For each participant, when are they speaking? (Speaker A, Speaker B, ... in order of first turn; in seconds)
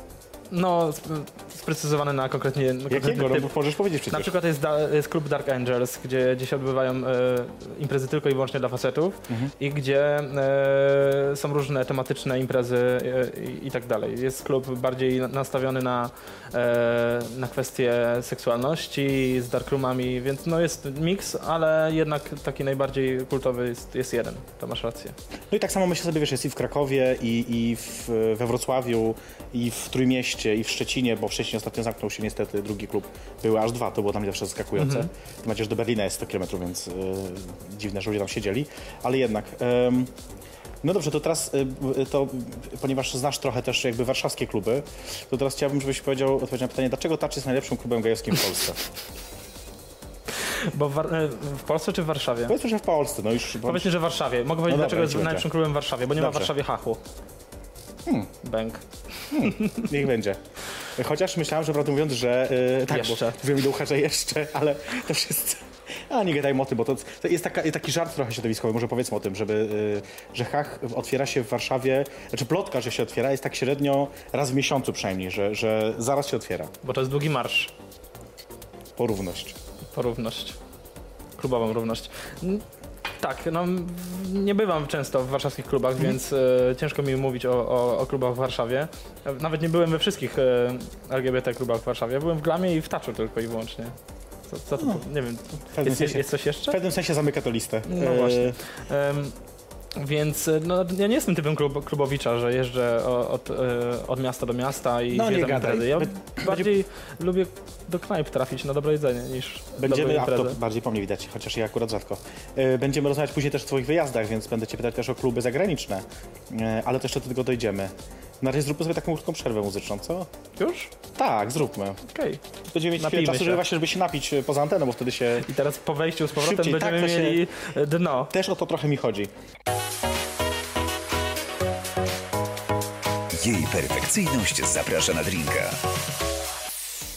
Speaker A: 0.5-3.5, 4.1-25.1, 34.8-35.1, 50.4-52.5, 53.6-57.0, 58.4-59.9, 62.9-63.4, 76.8-77.7, 79.9-80.6, 81.4-82.6, 83.2-93.9, 94.5-96.8, 97.8-99.4, 99.9-110.6, 120.6-120.9, 122.1-122.4, 123.0-123.6, 125.4-128.3
Speaker B: 2.9-4.3, 25.5-40.1, 40.8-48.8, 52.5-53.9, 54.7-55.5, 56.2-56.5, 58.0-58.3, 59.3-60.4, 61.0-76.7, 79.0-79.5, 95.7-98.6, 105.1-106.7, 109.8-120.3, 121.1-122.0, 122.7-125.5, 126.3-127.4, 128.3-129.3
Speaker C: 133.3-135.8